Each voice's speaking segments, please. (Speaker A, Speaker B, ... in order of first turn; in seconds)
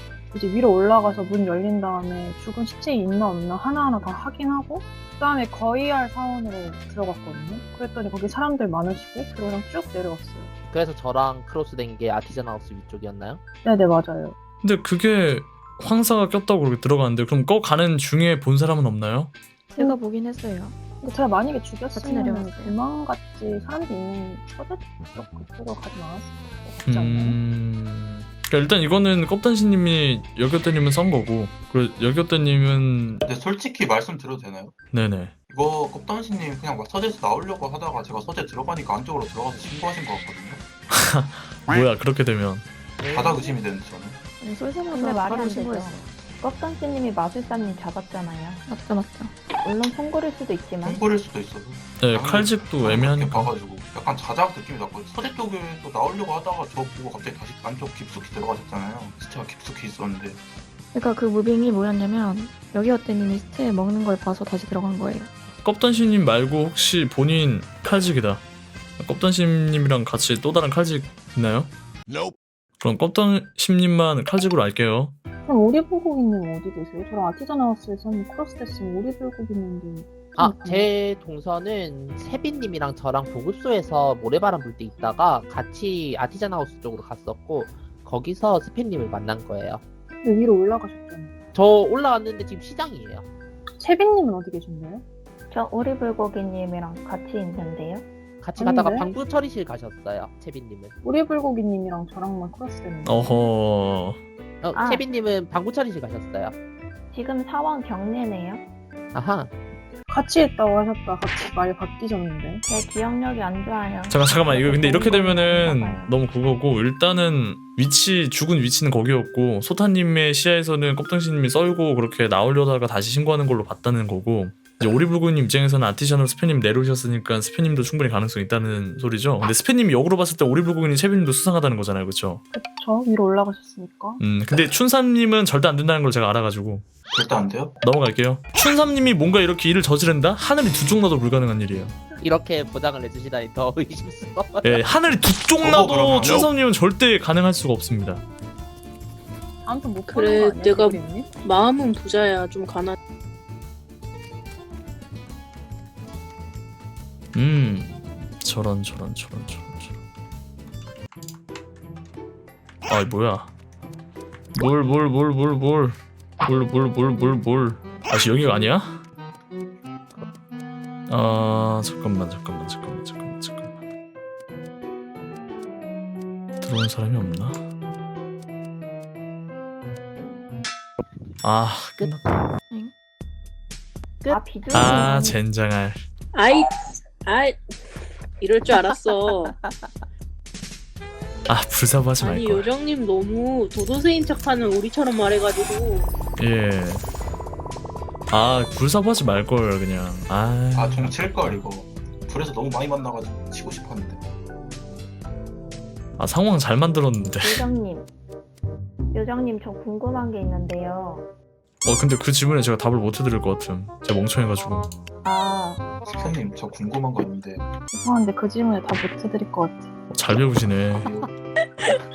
Speaker A: 0.3-10.5, 13.6-14.3, 21.0-27.4, 75.4-80.9, 90.2-91.3, 93.8-95.0, 98.6-99.1, 101.0-103.5, 110.1-112.6, 132.5-134.2, 149.6-151.4, 217.9-219.9
Speaker B: 10.7-13.4, 80.3-89.8, 91.5-93.3, 98.4-100.9, 104.6-106.5, 109.1-109.5, 142.2-144.8
Speaker C: 14.6-19.3, 26.8-33.2, 34.9-35.4, 40.9-42.7, 52.0-53.5, 65.6-68.4, 69.0-71.7, 72.8-75.1, 103.0-104.2, 114.1-132.4, 134.2-136.9, 137.8-141.9, 144.6-148.2, 157.3-160.0, 162.9-163.5, 164.6-169.0, 171.1-173.7, 176.6-177.6, 181.4-182.4, 184.7-186.0, 191.5-192.7, 196.4-197.0, 198.3-201.6, 206.2-207.7, 211.8-214.9, 220.1-221.1
Speaker D: 19.7-20.8, 21.9-22.8, 44.4-46.1, 48.7-49.3, 60.9-65.3
Speaker E: 33.2-34.7, 35.5-40.6, 43.0-44.2, 50.8-60.4, 137.1-137.8, 145.6-146.5, 200.8-204.2, 216.1-217.7, 221.0-221.3
Speaker F: 44.9-48.6, 49.6-51.0, 95.5-98.1, 104.7-105.0, 107.1-108.6, 112.7-116.2, 184.3-185.4, 207.4-208.1, 209.1-211.3, 215.2-215.9
Speaker G: 150.1-153.0, 186.3-187.7, 188.4-189.6, 192.2-196.1